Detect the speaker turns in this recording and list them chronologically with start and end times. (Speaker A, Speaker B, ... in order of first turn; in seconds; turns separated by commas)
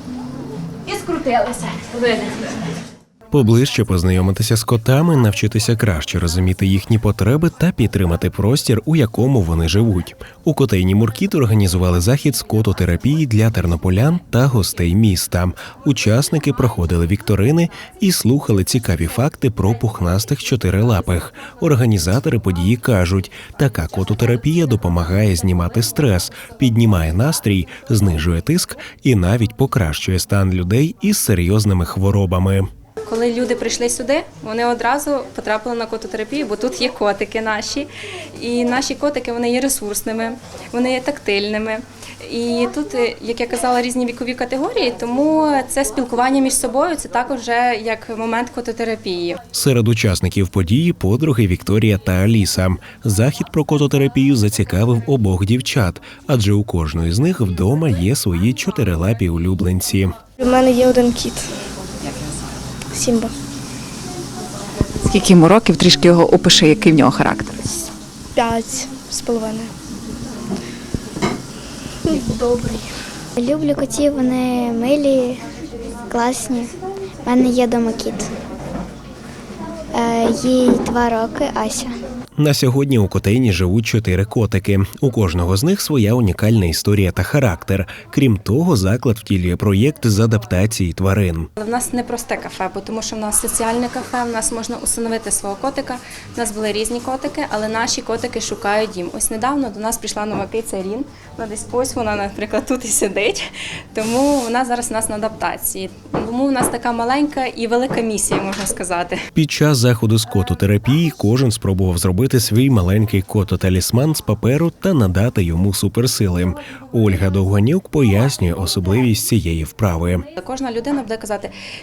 Speaker A: 0.9-2.5, Speaker B: 3.3-32.7, Speaker A: 33.0-49.4, Speaker B: 49.5-60.1, Speaker C: 60.4-61.5, Speaker C: 62.9-63.3, Speaker D: 65.0-67.9, Speaker C: 68.4-69.7, Speaker C: 72.1-72.8, Speaker E: 73.4-75.4, Speaker E: 76.1-76.7, Speaker E: 77.2-78.3, Speaker E: 79.9-81.9, Speaker B: 82.4-91.5, Speaker A: 91.6-109.2, Speaker B: 109.3-120.3, Speaker A: 120.4-121.5